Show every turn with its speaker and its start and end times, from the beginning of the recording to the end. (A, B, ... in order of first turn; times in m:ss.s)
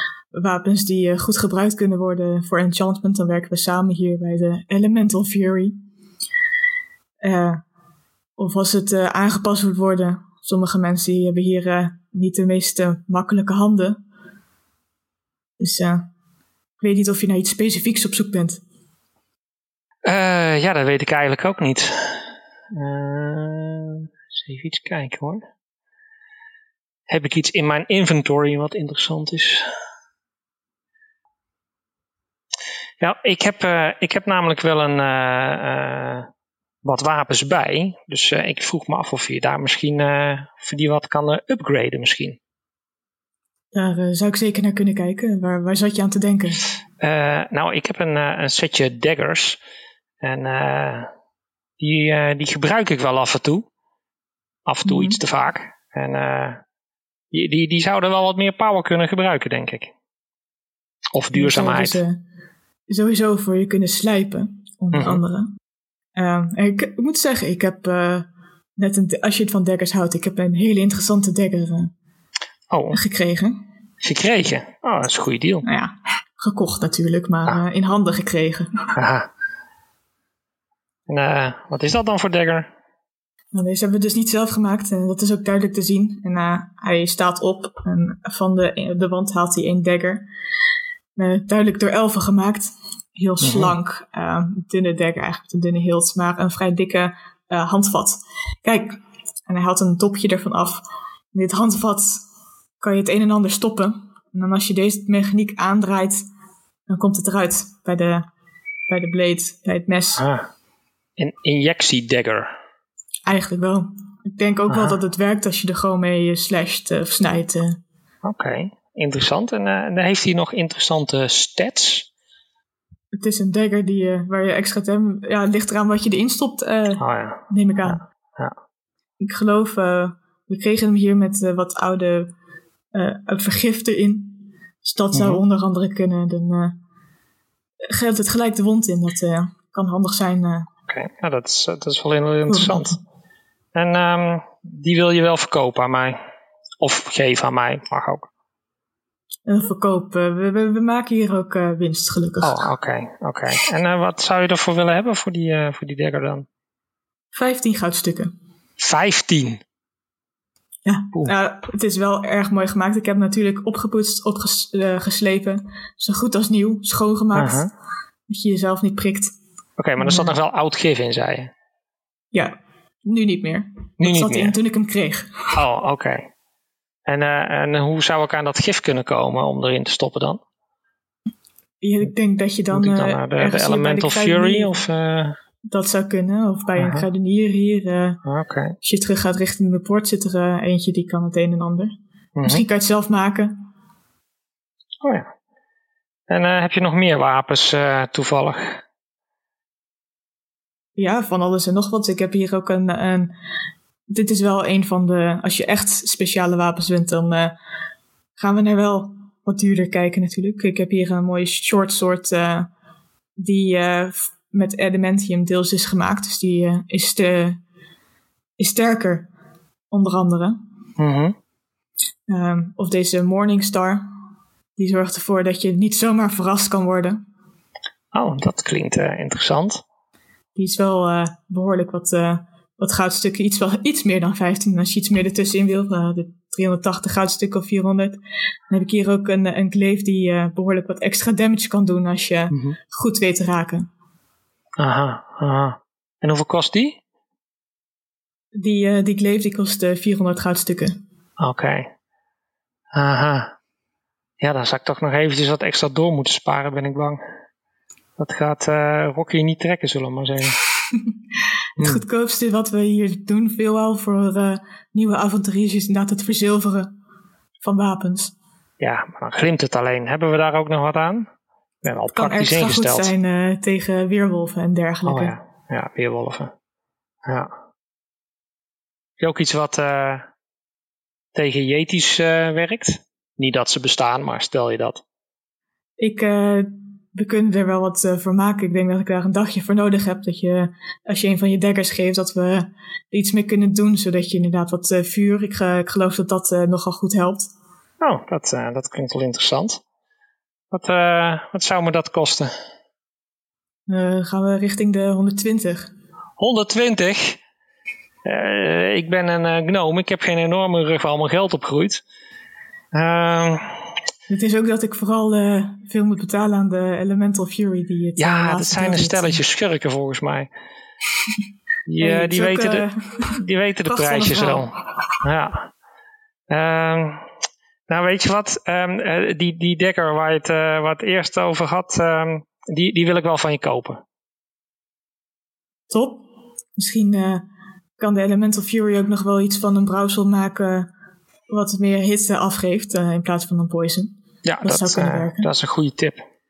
0:00.3-0:05.8 A
0:07.2-0:07.6 A
0:08.4-0:14.0 A
0:15.6-0:16.1 A
0:16.8-0:18.6 A
0:20.0-0:22.2 B
0:22.7-0:25.4 B
0:27.1-0:29.6 B
0:33.0-0:36.3 B
0:36.8-0:42.4 B
0:43.7-0:46.6 A
0:47.0-0:49.6 B
0:50.2-0:51.1 B
0:51.8-0:53.7 B
0:54.6-0:56.6 B
0:54.8-0:55.2 A
0:57.3-0:59.9 B
1:01.1-1:02.0 B
1:01.3-1:02.2 A
1:02.9-1:05.5 A
1:04.9-1:05.2 B
1:06.2-1:11.9 A
1:12.7-1:13.0 B
1:12.9-1:13.6 A
1:14.0-1:15.6 B
1:15.6-1:18.9 A
1:19.0-1:19.3 B
1:21.1-1:22.7 B
1:23.5-1:30.2 A
1:31.2-1:40.8 A
1:33.4-1:33.7 B
1:41.3-1:42.2 A
1:42.8-1:46.2 A
1:46.9-1:48.3 A
1:48.9-1:50.2 A
1:50.2-1:50.5 B
1:51.2-1:52.5 B
1:53.3-1:57.8 A
1:54.7-1:55.0 B
1:58.2-2:02.1 B
2:03.1-2:08.0 A
2:07.0-2:08.5 B
2:09.2-2:12.3 A
2:12.9-2:16.8 A
2:15.1-2:15.4 B
2:17.9-2:20.7 A
2:20.9-2:23.0 B
2:22.5-2:23.0 A
2:23.7-2:26.2 B
2:26.8-2:28.3 B
2:29.5-2:32.6 A
2:32.4-2:36.4 B
2:37.3-2:38.3 A
2:38.8-2:39.6 B
2:40.8-2:47.7 A
2:47.3-2:47.7 B
2:48.3-2:49.3 A
2:49.8-2:51.5 B
2:50.0-2:50.3 A
2:52.3-2:55.6 A
2:54.0-2:54.6 B
2:55.6-2:56.3 B
2:57.0-3:00.4 B
3:01.8-3:04.8 A
3:02.7-3:05.4 B
3:05.7-3:08.2 A
3:06.8-3:07.0 B
3:08.2-3:08.7 B
3:08.8-3:11.9 A
3:12.4-3:12.6 B
3:12.4-3:13.6 A
3:15.0-3:15.3 B
3:16.3-3:18.8 B
3:21.0-3:23.3 A
3:24.1-3:27.5 A
3:28.4-3:32.7 A
3:33.4-3:37.6 A
3:38.6-3:39.3 A
3:39.9-3:40.6 A
3:41.0-3:41.3 B
3:42.3-3:44.1 A
3:44.8-3:47.2 A
3:48.1-3:49.8 B
3:50.6-3:58.2 A
3:58.7-4:03.9 A
4:02.5-4:02.8 B
4:04.8-4:07.0 B
4:08.5-4:11.0 A
4:11.4-4:11.9 B
4:12.9-4:13.5 B
4:14.4-4:17.2 B
4:18.2-4:20.6 B
4:21.8-4:26.9 A
4:27.6-4:28.3 A
4:28.8-4:31.3 B
4:31.8-4:33.1 B
4:32.1-4:35.3 A
4:35.0-4:36.5 B
4:37.2-4:37.5 B
4:39.2-4:40.3 B
4:41.3-4:45.0 B
4:46.0-4:57.5 A
4:58.0-4:59.8 B
5:00.7-5:02.5 B
5:03.9-5:05.9 A
5:06.4-5:07.4 B
5:08.2-5:12.0 B
5:12.9-5:13.9 B
5:14.3-5:19.4 A
5:18.2-5:20.5 B
5:21.9-5:25.7 B
5:22.0-5:24.7 A
5:26.5-5:27.2 B
5:27.9-5:34.0 B
5:35.9-5:36.2 A
5:36.8-5:37.4 A
5:38.0-5:40.9 A
5:41.5-5:45.5 A
5:44.4-5:46.2 B